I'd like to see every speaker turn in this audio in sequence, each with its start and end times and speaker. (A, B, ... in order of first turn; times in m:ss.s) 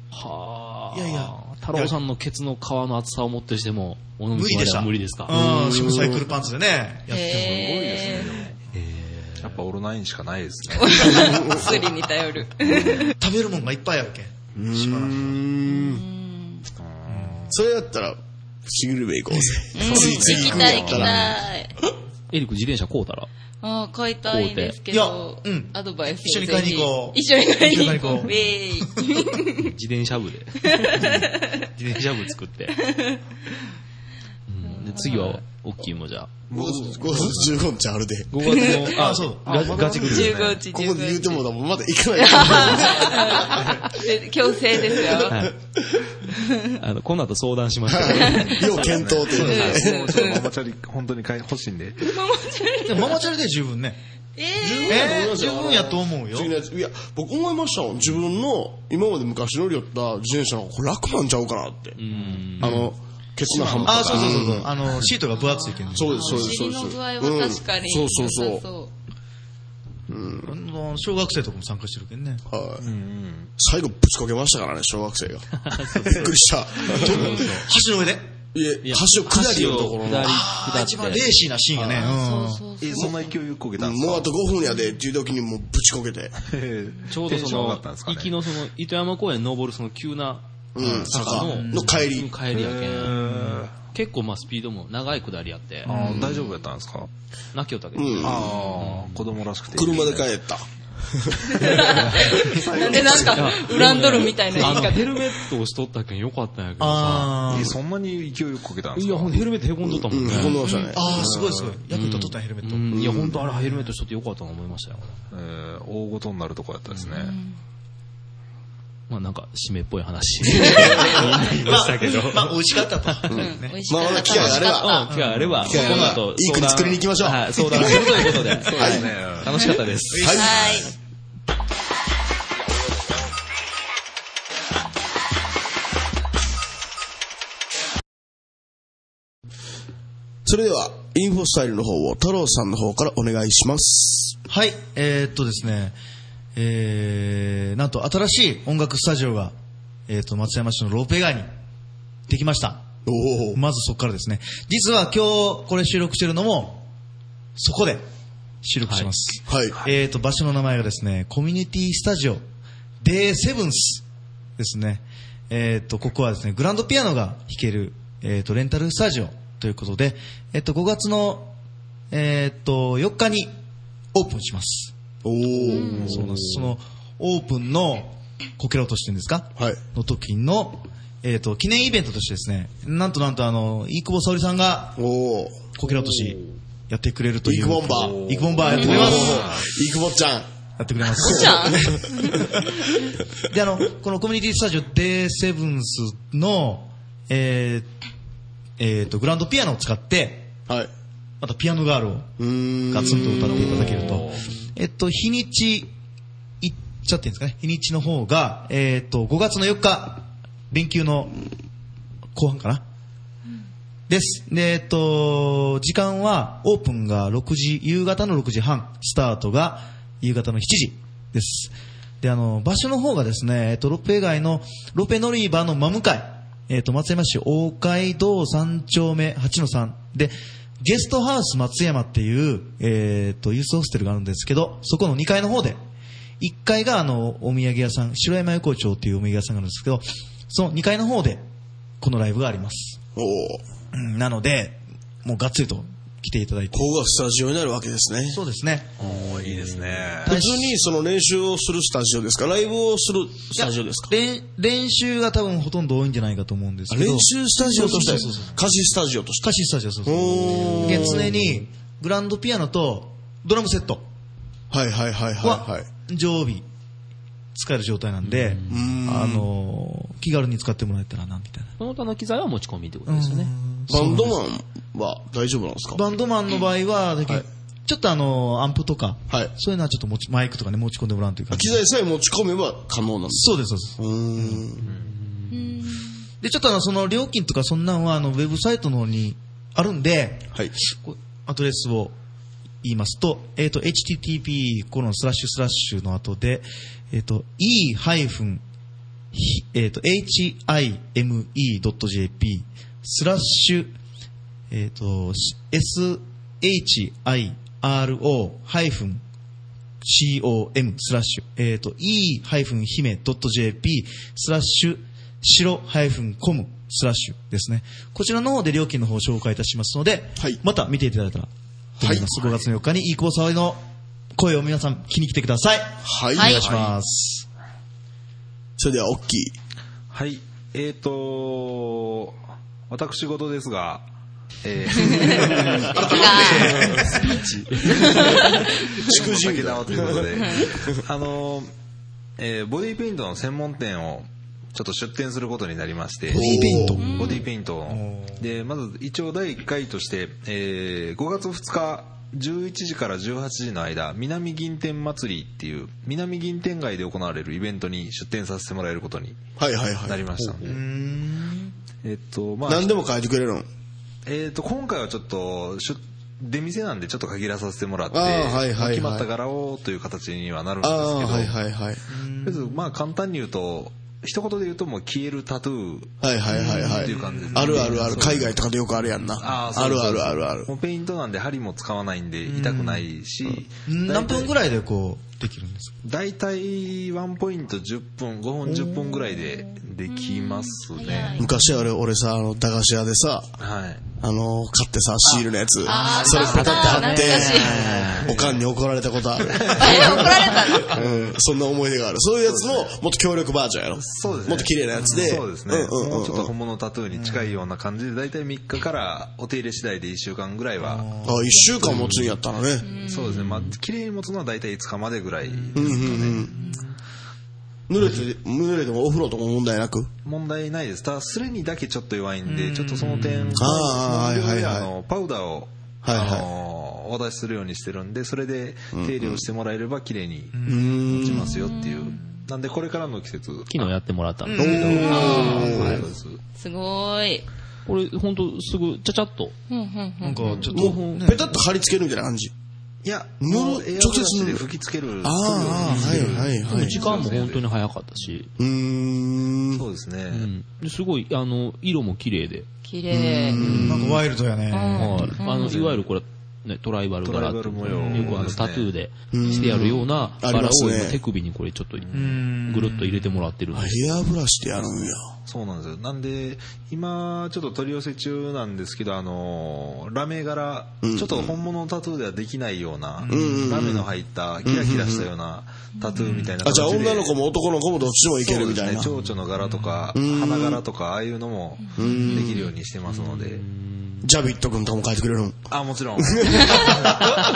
0:00.1-0:05.4 A
0:00.9-0:02.0 B
0:04.4-0:07.4 B
0:05.3-0:06.3 C
0:07.1-0:08.4 D
0:07.3-0:08.6 E
0:08.7-0:09.6 A
0:09.4-0:11.6 E
0:10.7-0:13.2 D
0:11.0-0:11.9 C
0:11.6-0:12.0 B
0:12.6-0:13.1 E
0:13.2-0:15.4 B
0:14.6-0:16.0 C
0:15.6-0:16.7 D
0:16.8-0:17.6 E
0:17.1-0:17.4 B
0:17.5-0:21.4 C
0:19.8-0:21.7 D
0:19.9-0:21.4 E
0:22.3-0:23.3 A
0:23.6-0:29.7 D
0:24.3-0:24.8 A
0:24.9-0:28.3 B
0:29.6-0:32.8 A
0:30.8-0:31.6 D
0:32.8-0:33.2 D
0:34.5-0:36.3 A
0:34.6-0:35.4 D
0:36.5-0:37.6 E
0:36.5-0:38.3 C
0:38.3-0:40.4 A
0:38.4-0:39.2 D
0:38.7-0:39.9 B
0:39.5-0:40.6 E
0:40.0-0:41.4 D
0:40.7-0:43.7 C
0:42.2-0:45.4 D
0:44.8-0:45.3 C
0:45.2-0:45.6 A
0:46.3-0:46.7 D
0:46.8-0:48.8 A
0:47.9-0:50.1 C
0:48.2-0:48.7 D
0:48.8-0:52.1 E
0:49.3-0:50.6 D
0:52.0-0:53.2 D
0:52.8-0:54.0 B
0:54.4-0:55.2 D
0:54.6-1:02.0 C
0:54.9-0:56.5 B
1:02.0-1:02.8 A
1:02.6-1:02.9 B
1:02.6-1:05.1 C
1:03.4-1:04.6 E
1:03.8-1:06.5 B
1:05.3-1:08.9 D
1:05.9-1:08.6 C
1:10.1-1:10.5 C
1:10.3-1:12.4 B
1:12.5-1:12.8 C
1:12.8-1:13.5 E
1:13.6-1:17.4 C
1:15.6-1:16.3 A
1:16.9-1:17.7 A
1:16.9-1:18.3 B
1:18.5-1:20.5 C
1:18.8-1:21.4 A
1:20.2-1:22.6 B
1:22.0-1:23.2 D
1:22.8-1:24.3 E
1:23.8-1:26.3 C
1:26.4-1:28.4 E
1:27.1-1:33.2 A
1:30.8-1:32.3 C
1:30.8-1:31.4 E
1:31.4-1:32.0 B
1:32.5-1:33.8 E
1:33.2-1:33.6 B
1:33.8-1:36.0 A
1:35.9-1:37.1 E
1:35.9-1:36.4 C
1:35.9-1:36.2 B
1:37.5-1:39.4 A
1:38.0-1:38.5 C
1:38.2-1:40.3 E
1:39.7-1:42.0 C
1:41.6-1:44.1 E
1:41.6-1:45.2 D
1:43.0-1:47.4 A
1:46.8-1:47.8 B
1:47.5-1:47.8 C
1:47.5-1:49.4 E
1:49.0-1:50.6 A
1:49.8-1:51.6 C
1:50.6-1:51.0 D
1:50.9-1:53.9 B
1:51.2-1:51.7 E
1:51.9-1:55.2 A
1:52.9-1:53.4 C
1:55.3-1:57.3 E
1:56.9-1:57.2 A
1:57.1-1:57.6 D
1:59.1-2:03.1 A
2:00.8-2:03.8 B
2:03.3-2:05.0 C
2:03.3-2:05.1 D
2:04.6-2:10.3 A
2:05.2-2:05.8 E
2:05.6-2:09.1 C
2:05.8-2:06.1 B
2:08.7-2:09.7 E
2:10.1-2:10.6 B
2:10.2-2:10.8 C
2:10.4-2:10.9 D
2:20.4-2:24.4 C
2:24.5-2:26.0 B
2:26.6-2:29.5 B
2:30.1-2:31.5 B
2:32.3-2:32.8 B
2:33.1-2:33.6 C
2:33.6-2:36.8 B
2:37.6-2:38.0 B
2:38.6-2:42.4 B
2:38.8-2:39.1 A
2:39.5-2:39.8 C
2:43.0-2:44.0 B
2:44.6-2:51.5 B
2:52.1-2:53.5 B
2:54.1-2:54.9 B
2:55.2-2:56.4 C
2:55.6-3:05.0 B
2:55.7-2:56.1 D
2:55.9-2:56.5 E
3:05.0-3:05.7 C
3:05.8-3:09.5 B
3:07.4-3:10.5 C
3:08.0-3:09.7 E
3:08.6-3:09.4 D
3:10.8-3:12.7 B
3:11.2-3:12.5 D
3:11.2-3:12.0 C
3:13.5-3:17.9 B
3:18.8-3:20.5 B
3:21.4-3:22.3 B
3:22.4-3:24.0 C
3:22.9-3:25.9 B
3:23.6-3:24.4 E
3:26.6-3:31.4 B
3:32.4-3:32.8 B
3:34.1-3:55.8 B
3:56.4-4:01.4 B
4:02.0-4:03.0 B
4:03.2-4:03.6 C
4:03.9-4:06.9 B
4:06.7-4:08.4 C
4:08.3-4:08.9 B
4:09.0-4:10.3 E
4:09.0-4:10.2 A
4:10.3-4:14.1 C
4:10.3-4:10.8 B
4:13.6-4:18.6 B
4:16.9-4:21.6 C
4:17.6-4:18.2 D
4:19.4-4:24.1 B
4:24.7-4:25.9 C
4:25.4-4:26.6 B
4:27.6-4:31.7 B
4:28.2-4:29.0 A
4:28.7-4:29.5 C
4:31.8-4:33.5 A
4:33.1-4:34.4 B
4:33.9-4:36.0 C
4:36.0-4:41.8 B
4:41.5-4:44.8 C
4:43.3-4:44.6 B
4:44.8-4:45.1 E
4:44.9-4:45.6 A
4:45.5-4:46.1 D
4:46.4-4:50.5 B
4:51.1-4:52.2 B
4:52.8-4:58.6 B
4:59.3-5:04.0 B
5:04.7-5:09.2 B
5:10.0-5:23.8 B
5:22.0-5:22.3 C
5:24.4-5:27.5 B
5:26.0-5:26.9 C
5:26.4-5:26.6 D
5:26.6-5:26.9 E
5:28.8-5:29.6 C
5:30.1-5:32.4 E
5:32.9-5:34.1 E
5:34.6-5:37.3 E
5:35.0-5:37.0 D
5:35.5-5:37.9 B
5:36.6-5:37.0 C
5:37.9-5:38.5 C
5:37.9-5:38.4 E
5:38.1-5:38.5 D
5:39.0-5:41.7 E
5:39.0-5:41.0 C
5:40.3-5:40.7 D
5:42.4-5:59.4 E
5:46.3-5:48.4 B
5:46.3-5:47.1 C
5:47.0-5:47.4 D
5:59.6-6:00.3 C
6:00.0-6:00.8 E
6:00.4-6:00.8 A
6:00.7-6:01.8 B
6:02.0-6:03.0 E
6:02.7-6:03.7 C
6:04.3-6:11.6 E
6:08.1-6:09.3 C
6:10.8-6:12.0 C
6:12.1-6:13.0 B
6:12.4-6:16.1 E
6:16.2-6:20.7 C
6:16.5-6:18.4 B
6:16.7-6:18.6 E
6:19.4-6:24.5 E
6:22.5-6:23.1 B
6:23.9-6:26.0 B
6:26.0-6:31.4 E
6:30.1-6:31.5 D
6:31.4-6:33.5 C
6:33.6-6:34.0 E
6:34.2-6:46.5 C
6:35.8-6:37.9 D
6:36.2-6:37.2 E
6:36.6-6:37.9 A
6:37.5-6:37.9 B
6:37.9-6:38.6 E
6:39.5-6:41.1 E
6:39.8-6:41.0 D
6:42.4-6:42.9 E
6:44.0-6:51.1 E
6:47.1-6:47.6 B
6:50.8-6:52.1 B
6:51.2-6:52.9 C
6:51.9-6:52.2 A
6:52.8-6:53.4 D
6:53.0-6:56.5 E
6:53.3-6:53.8 A
6:55.7-6:56.9 B
6:55.8-6:56.5 C
6:57.9-7:00.1 C
7:00.2-7:13.9 E
7:02.5-7:04.0 B
7:03.6-7:04.9 C
7:06.0-7:06.5 C
7:08.9-7:09.4 C
7:10.5-7:12.4 B
7:10.7-7:11.6 C
7:11.6-7:12.2 D
7:13.7-7:16.0 A
7:14.4-7:16.0 B
7:14.6-7:16.0 C
7:14.8-7:16.4 E
7:15.0-7:15.7 D
7:16.6-7:17.5 D
7:17.9-7:19.6 A
7:19.7-7:20.7 D
7:20.2-7:21.6 B
7:20.7-7:21.6 A
7:20.7-7:22.5 C
7:23.0-7:27.7 E
7:23.4-7:24.7 C
7:25.2-7:27.0 C
7:25.9-7:28.5 A
7:28.6-7:29.8 C
7:29.8-7:30.5 E
7:30.3-7:32.7 A
7:32.8-7:33.6 D
7:33.1-7:34.3 C
7:33.6-7:34.0 A
7:33.7-7:35.4 B
7:34.7-7:35.7 D
7:35.0-7:44.1 A
7:35.6-7:36.1 E
7:37.2-7:38.9 E
7:39.3-7:41.2 C
7:39.5-7:39.9 D
7:42.0-7:42.4 E
7:42.1-7:43.5 B
7:43.7-7:45.3 C
7:45.5-7:57.4 E
7:51.0-7:51.6 C
7:53.2-7:53.9 B
7:53.3-7:54.1 C
7:54.6-7:55.3 C
7:56.2-7:56.5 A
7:56.6-7:59.1 C
7:58.4-8:03.6 E
7:59.2-8:00.1 A
8:00.1-8:00.8 C
8:02.0-8:02.6 C
8:02.2-8:04.3 A
8:04.2-8:05.6 C
8:05.7-8:07.2 E
8:06.2-8:07.4 C
8:06.7-8:07.0 D